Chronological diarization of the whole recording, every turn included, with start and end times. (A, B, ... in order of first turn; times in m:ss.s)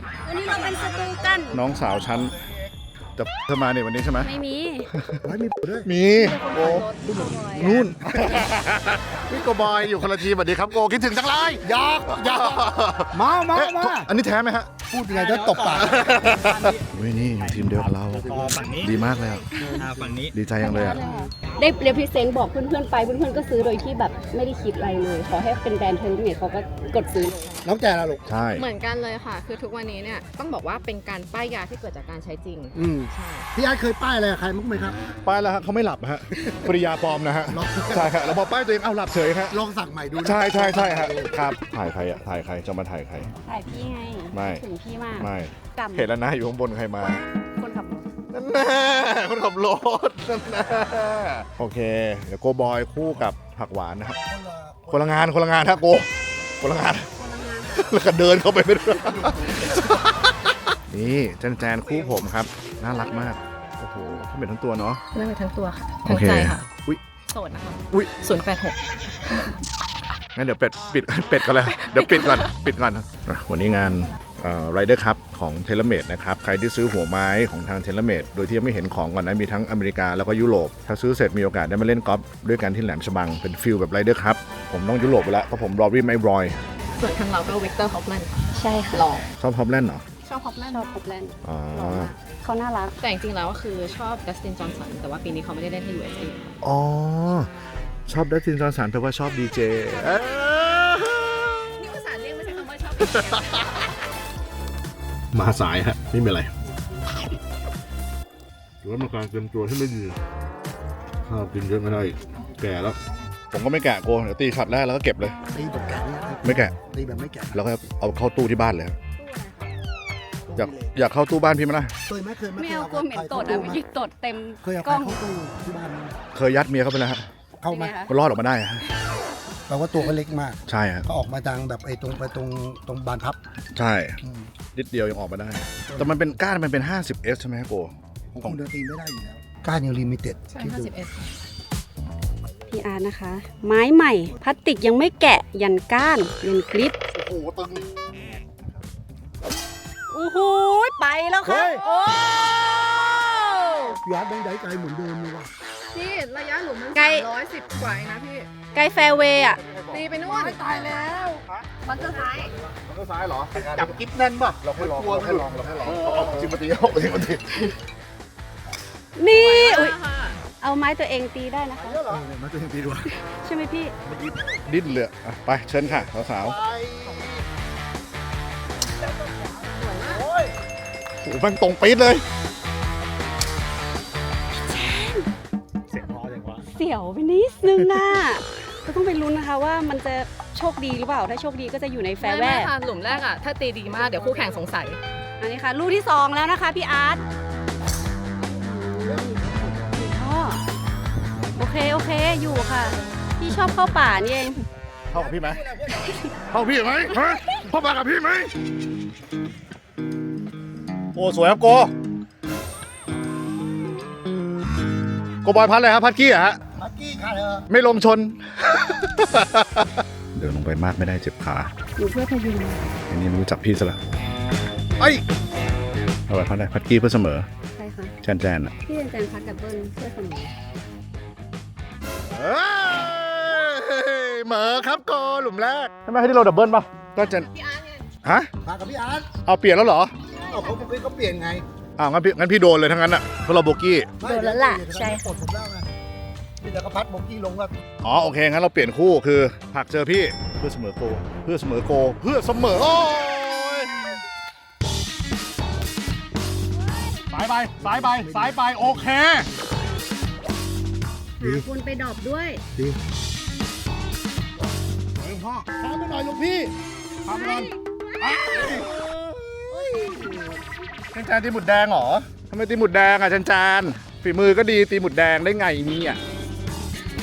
0:00.2-0:01.6 A
0:01.5-0:02.5 B
0:03.2-0:04.3 B
0:04.2-0:04.9 A
0:05.2-0:05.9 C
0:05.8-0:06.9 B
0:06.1-0:07.7 A
0:07.0-0:08.5 C
0:07.5-0:14.7 B
0:11.6-0:12.5 C
0:13.1-0:14.1 C
0:14.9-0:16.0 C
0:15.1-0:19.0 D
0:15.7-0:19.7 B
0:18.1-0:18.6 C
0:19.6-0:20.3 D
0:20.3-0:21.1 B
0:20.6-0:27.5 A
0:20.6-0:21.3 E
0:27.6-0:28.2 C
0:28.2-0:28.6 B
0:28.5-0:33.5 E
0:32.7-0:35.0 C
0:35.2-0:39.6 B
0:37.5-0:38.4 C
0:39.5-0:41.4 C
0:40.2-0:43.3 B
0:43.5-0:46.1 A
0:44.3-0:44.6 B
0:45.2-0:47.2 B
0:47.6-0:48.0 A
0:48.3-0:54.2 B
0:54.2-0:55.3 C
0:54.9-0:56.1 B
0:56.6-0:57.1 B
0:57.2-0:58.0 A
0:57.6-1:00.3 B
1:00.9-1:05.0 B
1:05.1-1:06.7 E
1:06.1-1:07.0 B
1:07.3-1:09.4 E
1:10.3-1:26.6 B
1:11.9-1:12.5 E
1:27.0-1:29.3 E
1:28.6-1:29.1 A
1:29.3-1:30.0 B
1:30.2-1:33.0 A
1:31.4-1:32.1 B
1:33.0-1:36.5 E
1:36.6-1:37.5 B
1:38.1-1:41.7 B
1:40.0-1:40.3 E
1:41.8-1:43.9 E
1:43.0-1:43.6 B
1:45.3-1:46.5 B
1:48.8-1:50.2 B
1:51.2-1:53.0 B
1:53.5-1:55.4 B
1:55.5-1:57.6 C
1:56.4-1:56.7 B
1:57.5-1:59.0 B
1:59.2-1:59.7 A
2:00.5-2:00.9 C
2:00.6-2:01.9 B
2:02.1-2:03.8 C
2:02.6-2:05.2 A
2:04.6-2:06.2 C
2:06.3-2:07.3 B
2:07.6-2:07.9 C
2:07.7-2:08.1 A
2:08.1-2:08.8 B
2:09.7-2:13.4 C
2:10.7-2:11.1 B
2:13.7-2:14.2 B
2:14.2-2:14.5 C
2:14.7-2:18.6 B
2:15.9-2:16.3 C
2:18.3-2:20.9 C
2:20.5-2:21.2 E
2:22.7-2:27.0 A
2:27.2-2:27.7 B
2:27.4-2:27.8 C
2:30.1-2:34.0 A
2:31.5-2:31.8 C
2:33.9-2:35.5 C
2:35.9-2:38.5 E
2:36.9-2:37.3 A
2:38.7-2:39.6 A
2:39.3-2:40.2 B
2:39.9-2:41.4 E
2:40.1-2:42.5 A
2:41.4-2:43.9 B
2:43.5-2:46.5 C
2:44.6-2:47.7 B
2:49.2-2:50.0 A
2:49.3-2:50.4 E
2:50.6-2:52.2 A
2:51.8-2:52.3 C
2:52.2-2:53.1 B
2:53.1-2:53.9 A
2:54.0-2:54.6 C
2:54.7-2:56.6 B
2:55.8-2:57.4 C
2:59.1-3:00.2 E
2:59.8-3:00.6 C
3:01.2-3:02.2 B
3:04.7-3:05.3 A
3:05.9-3:06.6 D
3:06.7-3:12.7 A
3:12.2-3:15.0 E
3:13.9-3:14.6 C
3:15.4-3:17.2 A
3:18.5-3:19.4 A
3:18.9-3:20.0 C
3:19.9-3:20.6 A
3:21.6-3:24.6 A
3:25.1-3:25.6 B
3:25.1-3:26.1 C
3:25.9-3:26.3 A
3:26.5-3:28.5 B
3:27.1-3:27.6 A
3:31.2-3:31.9 B
3:35.4-3:36.6 B
3:36.8-3:37.7 C
3:37.7-3:41.7 B
3:42.0-3:42.9 A
3:43.1-3:44.0 B
3:45.0-3:45.2 B
3:46.3-3:47.5 B
3:47.8-3:48.2 A
3:48.2-3:48.7 B
3:48.8-3:50.5 A
3:52.3-3:57.5 B
3:57.2-3:58.1 E
3:58.2-3:58.5 B
3:58.6-3:59.3 C
3:59.4-4:00.1 B
4:00.4-4:01.6 C
4:02.0-4:04.1 B
4:04.2-4:05.9 C
4:04.2-4:05.2 A
4:06.6-4:07.7 C
4:08.0-4:14.2 B
4:16.9-4:17.4 A
4:17.3-4:19.5 B
4:17.8-4:19.6 C
4:21.4-4:22.6 A
4:25.2-4:26.7 C
4:27.2-4:28.9 B
4:27.3-4:27.8 A
4:28.4-4:30.6 C
4:31.1-4:36.2 B